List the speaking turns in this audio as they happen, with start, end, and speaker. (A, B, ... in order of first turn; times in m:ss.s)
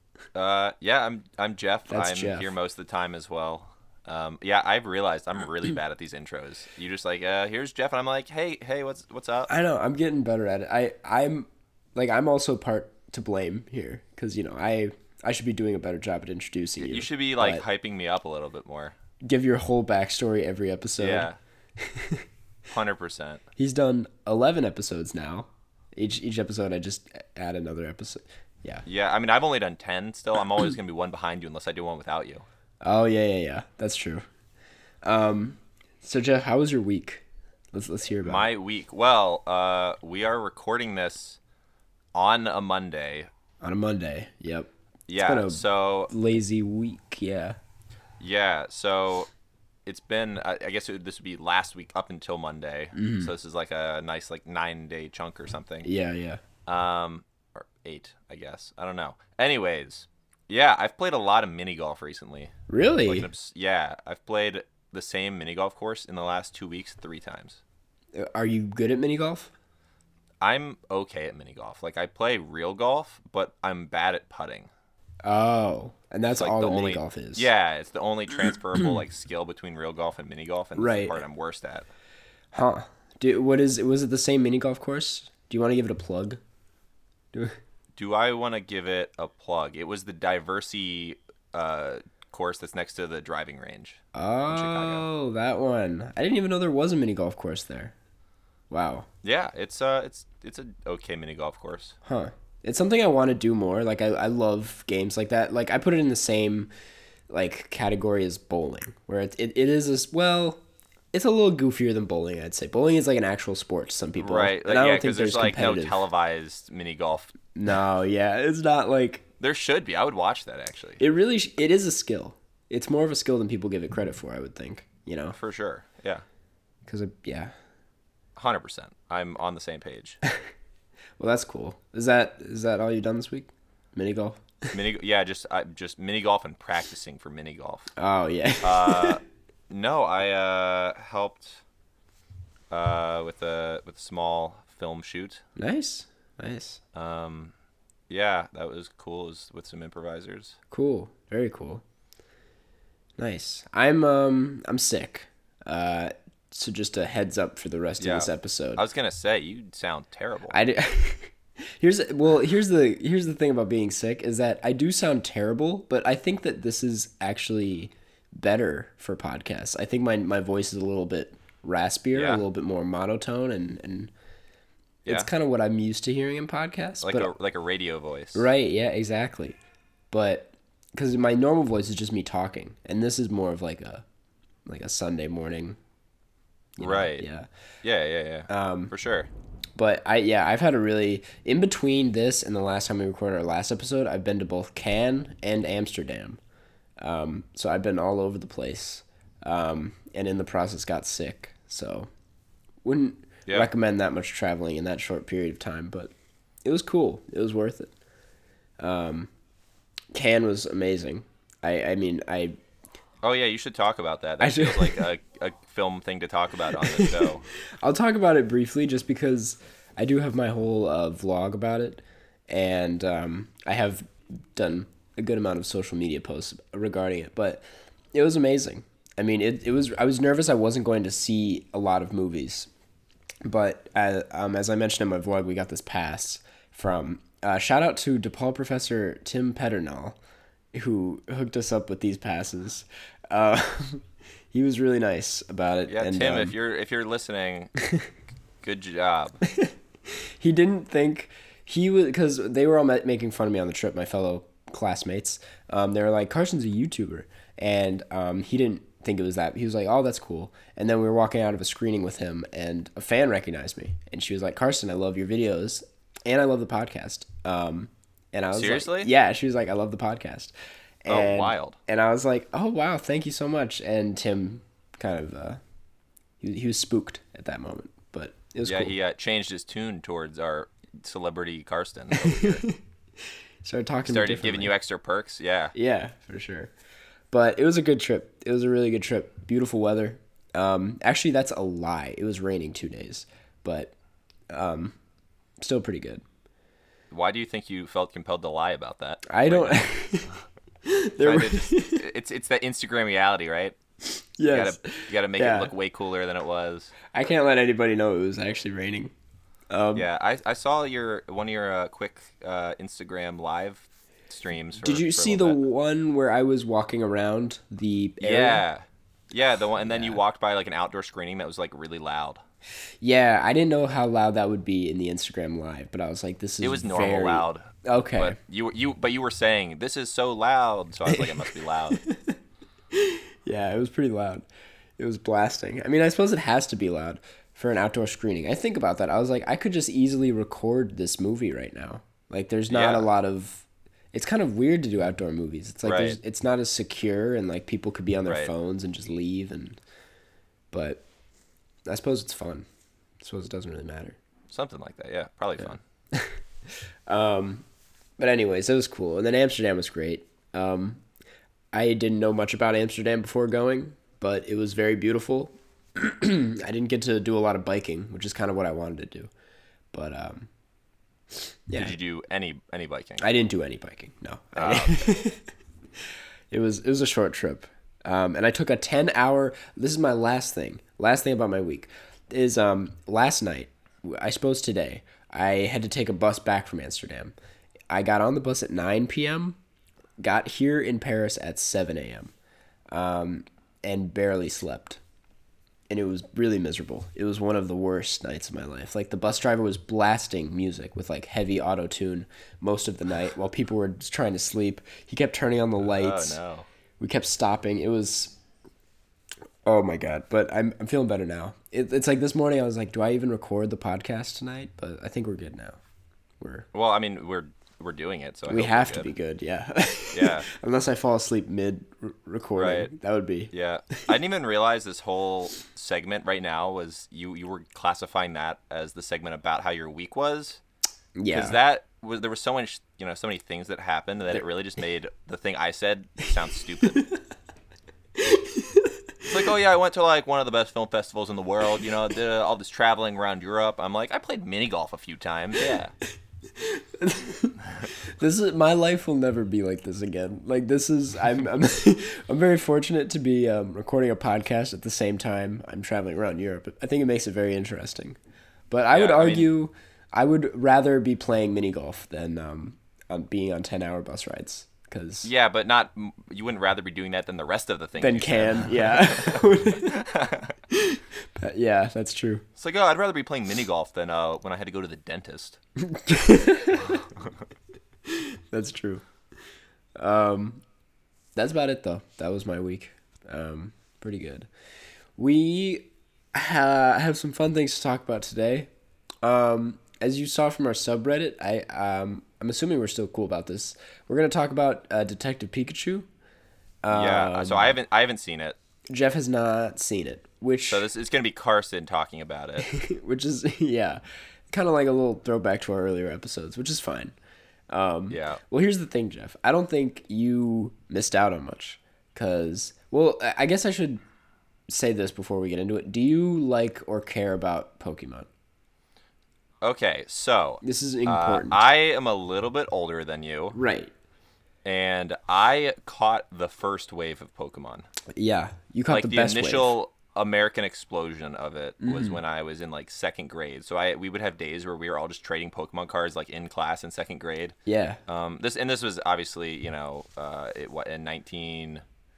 0:00.3-0:09.5 A
0:01.9-0:02.5 B
0:09.5-0:17.6 B
0:16.8-0:19.0 A
0:19.2-0:22.2 B
0:21.0-0:21.4 A
0:22.7-0:23.4 A
0:23.6-0:28.8 B
0:28.8-0:32.4 A
0:32.8-0:34.2 B
0:35.0-0:38.5 B
0:38.2-0:41.4 A
0:42.2-0:43.3 A
0:43.6-0:47.6 B
0:45.1-0:46.1 A
0:48.2-0:49.3 A
0:49.9-0:55.9 A
0:52.9-0:53.3 B
0:55.8-0:56.4 B
0:56.7-1:02.5 A
1:02.7-1:03.3 B
1:03.1-1:07.6 A
1:08.2-1:09.5 B
1:10.4-1:14.7 A
1:15.2-1:17.5 B
1:16.3-1:21.9 A
1:20.8-1:21.2 B
1:22.5-1:26.4 B
1:27.3-1:27.6 B
1:28.0-1:35.1 A
1:34.1-1:37.9 B
1:38.7-1:39.1 B
1:39.2-1:42.0 A
1:42.0-1:46.7 B
1:47.3-1:50.6 B
1:51.1-1:56.1 B
1:54.2-1:57.4 A
1:57.5-1:59.2 B
1:59.4-2:01.0 A
2:01.0-2:05.4 B
2:05.3-2:06.2 A
2:06.8-2:07.5 B
2:08.4-2:10.2 A
2:11.2-2:14.7 B
2:14.7-2:17.9 A
2:18.0-2:19.2 B
2:18.6-2:21.6 A
2:22.7-2:25.4 A
2:25.6-2:26.8 B
2:26.9-2:27.5 A
2:28.1-2:30.6 A
2:30.7-2:31.8 B
2:33.2-2:38.8 B
2:38.0-2:40.6 A
2:40.5-2:54.1 B
2:52.1-2:52.4 A
2:55.0-2:57.3 B
2:57.0-2:58.5 A
2:58.3-2:59.6 B
3:00.1-3:04.0 B
3:04.6-3:05.8 B
3:06.8-3:07.5 B
3:06.8-3:07.3 A
3:07.8-3:09.3 A
3:08.5-3:08.9 B
3:09.8-3:16.4 B
3:17.0-3:22.1 B
3:22.8-3:26.1 B
3:26.6-3:27.9 B
3:28.8-3:29.3 B
3:30.1-3:32.6 B
3:33.2-3:37.5 A
3:34.4-3:35.1 B
3:36.8-3:52.7 B
3:53.4-4:00.2 B
4:00.7-4:06.5 B
4:05.9-4:07.7 A
4:08.6-4:09.4 A
4:09.4-4:35.6 B
4:28.5-4:29.1 A
4:31.1-4:31.8 A
4:36.4-4:38.9 B
4:38.6-4:42.6 A
4:42.2-4:42.8 B
4:43.6-4:44.7 B
4:44.1-4:45.7 A
4:45.8-4:46.7 B
4:47.3-4:53.9 B
4:54.5-4:54.9 B
4:55.6-4:56.2 B
4:57.1-4:59.9 A
4:59.3-5:00.3 B
5:00.8-5:02.0 B
5:01.2-5:03.8 A
5:04.4-5:05.7 B
5:04.5-5:07.0 A
5:07.1-5:09.1 B
5:09.7-5:10.1 B
5:09.9-5:15.6 A
5:14.8-5:18.6 B
5:18.2-5:22.4 A
5:19.8-5:20.2 B
5:23.0-5:28.4 B
5:26.6-5:32.0 A
5:31.1-5:32.4 B
5:32.9-5:34.4 B
5:35.0-5:49.8 B
5:42.7-5:43.1 A
5:45.8-5:46.2 A
5:48.3-5:48.5 A
5:50.7-5:51.0 B
5:51.9-5:52.6 B
5:53.2-5:54.2 B
5:54.5-5:55.8 A
5:56.1-5:56.4 B
5:57.1-5:57.6 B
5:58.2-6:01.0 B
6:01.7-6:09.3 B
6:09.9-6:10.5 B
6:11.7-6:12.0 B
6:11.8-6:13.3 A
6:13.2-6:15.4 B
6:14.6-6:15.1 A
6:16.5-6:27.3 B
6:27.9-6:29.6 B
6:30.2-6:32.3 B
6:32.9-6:35.0 B
6:35.9-6:46.4 B
6:45.8-6:46.6 A
6:47.0-6:48.4 B
6:49.6-6:55.8 B
6:56.4-6:56.7 B
6:56.7-6:59.1 A
6:58.5-7:03.5 B
7:00.1-7:00.5 A
7:02.6-7:02.9 A
7:03.5-7:10.6 A
7:11.1-7:11.6 B
7:11.3-7:17.1 A
7:16.9-7:17.2 B
7:18.2-7:19.0 B
7:19.2-7:25.9 A
7:26.6-7:38.2 B
7:38.7-7:45.3 B
7:38.9-7:39.5 A
7:45.2-7:50.6 A
7:48.0-7:50.0 B
7:50.7-7:52.4 B
7:52.6-7:55.6 A
7:55.8-7:57.0 B
7:58.1-7:59.0 B
8:00.0-8:00.6 B
8:01.4-8:04.5 B
8:05.2-8:08.7 B
8:09.2-8:16.1 B
8:16.8-8:17.8 B
8:16.9-8:18.6 A
8:18.9-8:20.8 B
8:20.7-8:22.7 A
8:22.6-8:27.1 B
8:27.7-8:34.0 B
8:28.1-8:28.4 A
8:34.7-8:38.3 B
8:39.6-8:43.6 A
8:40.6-8:41.6 B
8:43.5-8:43.9 B
8:44.6-8:47.9 A
8:48.1-8:49.8 B
8:48.9-8:57.6 A
8:51.8-8:52.2 B
8:57.7-8:58.0 B
8:58.1-9:01.8 A